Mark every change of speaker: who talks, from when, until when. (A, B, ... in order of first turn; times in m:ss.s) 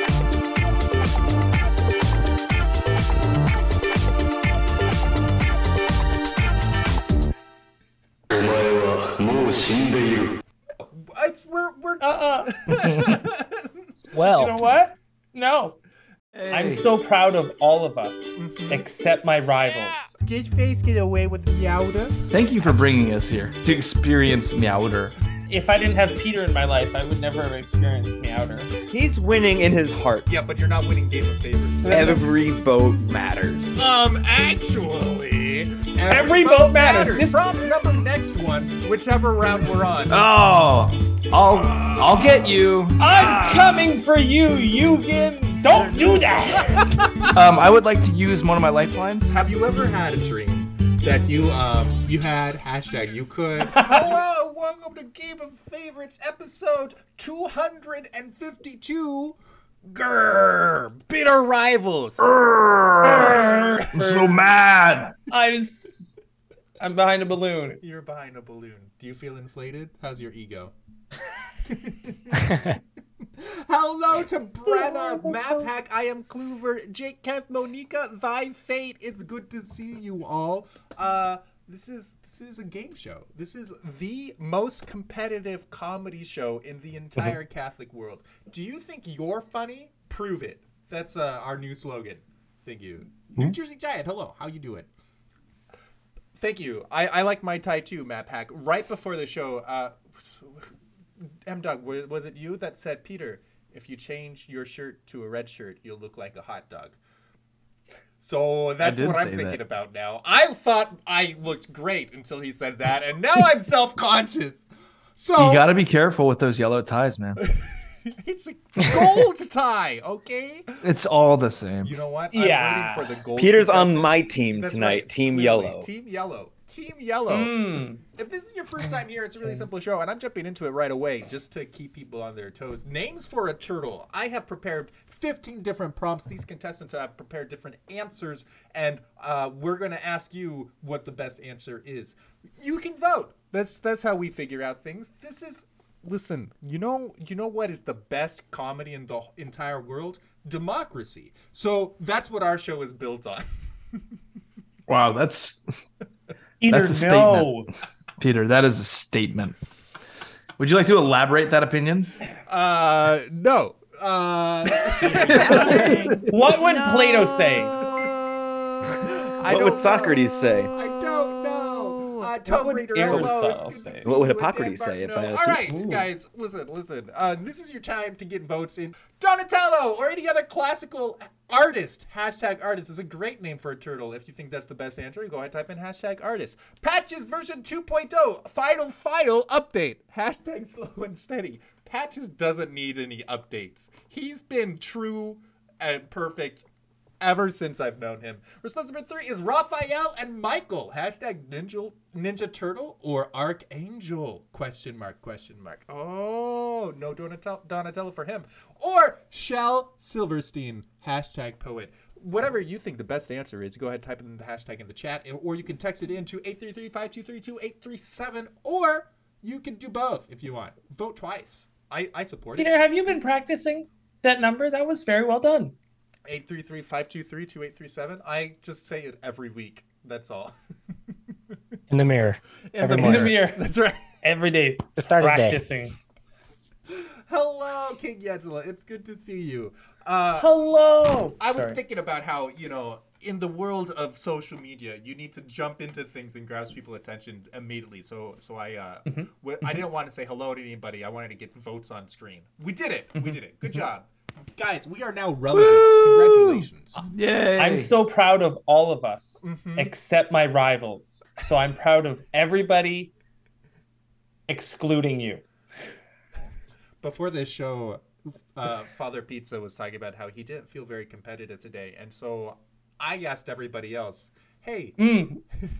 0:08.3-0:10.4 A
0:10.9-0:13.7 B
0:12.0-0:12.5 C
0:12.8-0:13.2 D
0:14.1-0:14.6 E
0:14.3-0:15.8 C
0:16.3-0:16.9 D
0:16.5-0:20.2 C
0:18.4-0:18.8 B
0:20.2-0:22.9 B
0:22.3-0:25.1 D
0:25.5-0:28.8 C
0:28.9-0:30.3 F
0:30.3-0:32.2 B
0:31.8-0:32.2 C
0:31.9-0:33.7 F
0:33.8-0:40.2 B
0:36.1-0:37.4 C
0:40.1-0:43.8 D
0:41.5-0:43.5 B
0:43.0-0:46.8 C
0:45.7-0:46.4 D
0:46.6-0:47.3 B
0:47.3-0:49.3 D
0:49.2-1:02.3 B
0:53.7-0:54.2 C
1:02.2-1:05.1 D
1:03.1-1:03.9 B
1:03.9-1:04.5 C
1:05.3-1:06.2 C
1:06.8-1:07.8 C
1:07.8-1:10.7 B
1:11.6-1:12.8 B
1:13.4-1:34.9 B
1:14.6-1:15.7 C
1:36.3-1:40.7 B
1:41.4-1:47.0 B
1:48.2-1:55.7 B
1:48.8-1:49.6 D
1:55.4-1:57.4 D
1:58.0-2:00.8 B
2:00.8-2:02.0 D
2:01.8-2:07.5 B
2:02.3-2:03.2 C
2:03.4-2:05.9 F
2:07.3-2:08.0 C
2:08.1-2:33.5 B
2:34.9-2:35.6 D
2:36.6-2:37.7 C
2:36.7-2:37.5 D
2:38.2-2:39.6 D
2:40.6-2:42.1 D
2:42.5-2:46.2 B
2:45.0-2:47.8 C
2:45.3-2:46.3 D
2:49.0-3:16.6 B
2:49.4-2:50.7 F
2:52.4-2:54.1 C
2:53.1-2:53.3 F
2:54.0-2:55.6 F
2:55.7-2:56.1 C
3:17.2-3:42.7 B
3:42.6-3:45.7 C
3:46.2-3:50.5 B
3:51.9-3:53.4 E
3:52.6-3:54.0 B
3:52.9-3:53.7 C
3:54.2-3:56.0 C
3:55.0-3:55.6 E
3:56.9-4:00.5 B
4:00.4-4:01.8 C
4:01.4-4:17.0 B
4:09.1-4:09.8 C
4:15.5-4:17.9 D
4:17.6-4:23.1 C
4:19.4-4:19.9 B
4:24.5-4:25.4 C
4:27.0-4:35.0 B
4:35.0-4:35.4 C